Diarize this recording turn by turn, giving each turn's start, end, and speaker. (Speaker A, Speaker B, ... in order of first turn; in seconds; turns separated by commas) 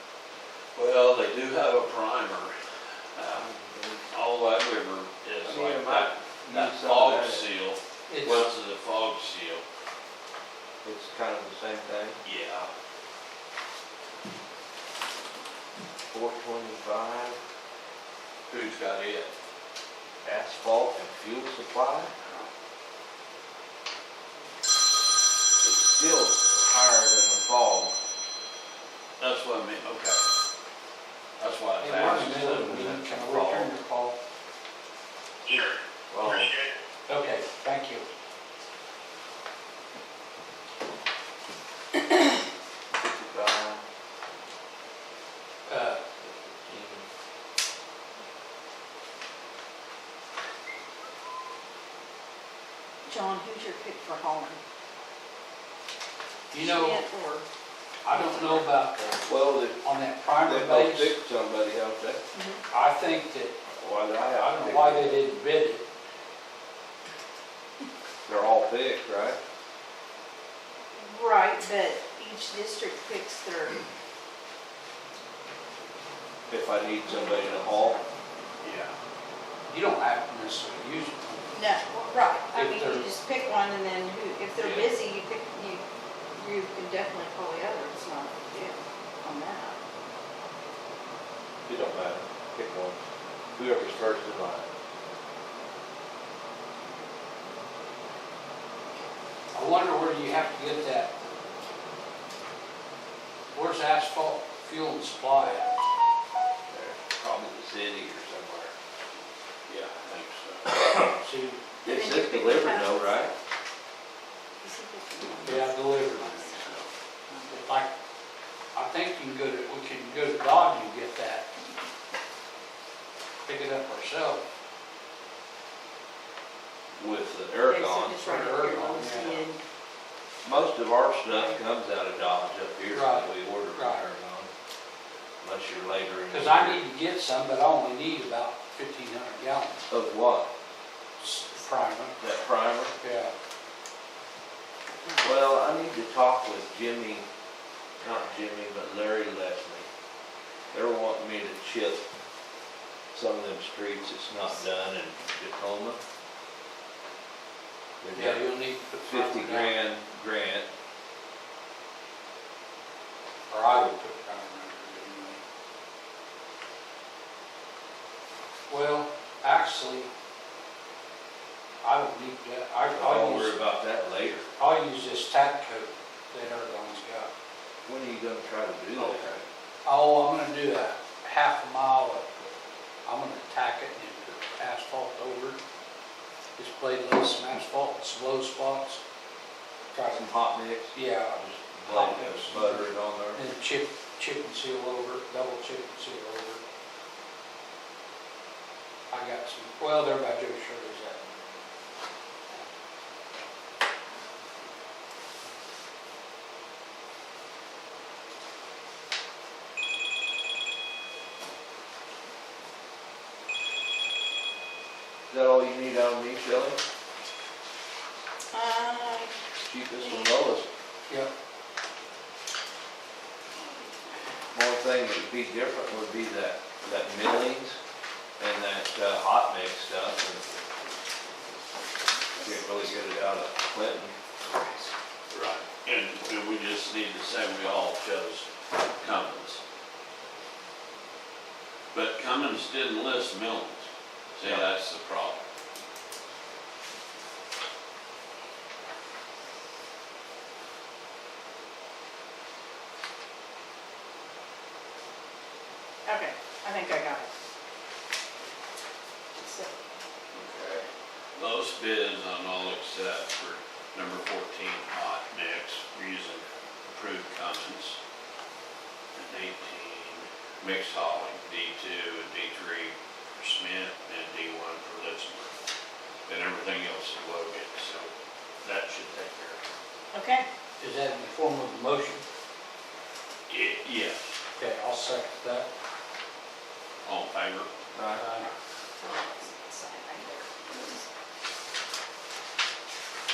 Speaker A: 0.8-2.6, Speaker A: 3.1-3.5, Speaker B: 3.3-4.1, Speaker A: 4.1-9.6, Speaker B: 5.4-7.5, Speaker C: 8.1-8.5, Speaker B: 10.8-12.2, Speaker A: 12.2-12.7, Speaker B: 16.1-17.4, Speaker A: 18.5-19.3, Speaker B: 20.2-22.1, Speaker B: 25.6-28.0, Speaker A: 29.2-30.2, Speaker A: 31.4-32.9, Speaker C: 31.8-34.1, Speaker B: 32.3-33.8, Speaker B: 35.5-36.6, Speaker A: 36.2-36.7, Speaker C: 37.1-38.1, Speaker B: 43.0-43.8, Speaker C: 45.7-46.0, Speaker B: 46.2-47.1, Speaker D: 53.0-54.6, Speaker C: 56.5-57.0, Speaker D: 56.5-57.5, Speaker C: 58.0-61.1, Speaker D: 58.1-58.8, Speaker B: 59.3-59.8, Speaker B: 60.4-62.2, Speaker D: 62.3-62.6, Speaker C: 62.7-63.6, Speaker B: 63.7-65.2, Speaker C: 64.3-65.8, Speaker B: 68.3-69.4, Speaker D: 71.0-73.8, Speaker B: 76.5-78.0, Speaker D: 77.0-78.0, Speaker A: 78.6-78.9, Speaker C: 79.7-81.7, Speaker D: 81.5-85.8, Speaker C: 82.5-83.1, Speaker B: 84.6-84.9, Speaker D: 86.3-89.8, Speaker B: 91.7-93.0, Speaker B: 93.5-94.7, Speaker C: 99.5-101.1, Speaker C: 103.5-105.7, Speaker B: 106.7-108.8, Speaker A: 109.7-111.0, Speaker B: 110.8-111.1, Speaker C: 111.2-111.7, Speaker D: 111.8-113.2, Speaker B: 111.8-113.3, Speaker D: 114.6-117.5, Speaker C: 115.4-116.5, Speaker A: 116.2-116.9, Speaker C: 117.5-117.9, Speaker C: 118.7-121.5, Speaker C: 123.5-124.4, Speaker B: 127.0-128.5, Speaker D: 127.7-129.6, Speaker C: 128.2-129.4, Speaker B: 130.4-134.5, Speaker C: 132.9-134.1, Speaker B: 135.4-136.8, Speaker C: 136.3-139.8, Speaker B: 139.9-140.5, Speaker C: 141.2-142.2, Speaker B: 142.2-142.9, Speaker C: 143.0-143.3, Speaker B: 145.2-147.3, Speaker B: 148.0-149.9, Speaker B: 150.7-152.0, Speaker B: 153.1-156.0, Speaker B: 158.0-158.5, Speaker C: 158.1-159.8, Speaker B: 159.1-160.7, Speaker C: 163.5-165.4, Speaker C: 168.7-170.1, Speaker C: 171.8-173.6, Speaker B: 172.8-174.5, Speaker C: 174.6-177.3, Speaker B: 177.9-179.4, Speaker C: 179.8-182.3, Speaker C: 183.1-185.6, Speaker C: 186.6-189.0, Speaker C: 189.9-190.3, Speaker B: 190.1-193.4, Speaker C: 190.9-196.6, Speaker C: 199.1-201.2, Speaker B: 215.3-216.8, Speaker D: 218.5-219.3, Speaker B: 219.6-220.7, Speaker D: 220.0-220.3, Speaker B: 224.5-227.8, Speaker B: 228.4-230.5, Speaker B: 232.3-234.2, Speaker D: 234.5-234.9, Speaker A: 235.3-238.5, Speaker A: 239.0-239.6, Speaker A: 241.9-245.4, Speaker D: 256.1-257.3, Speaker D: 259.4-259.7, Speaker A: 260.3-268.0, Speaker A: 269.1-275.5, Speaker A: 276.3-278.1, Speaker A: 278.6-279.6, Speaker D: 280.1-280.5, Speaker C: 280.8-282.2, Speaker A: 283.5-284.3, Speaker C: 284.6-285.7, Speaker A: 287.0-287.7, Speaker B: 287.9-288.2, Speaker C: 288.1-288.5, Speaker D: 289.0-291.1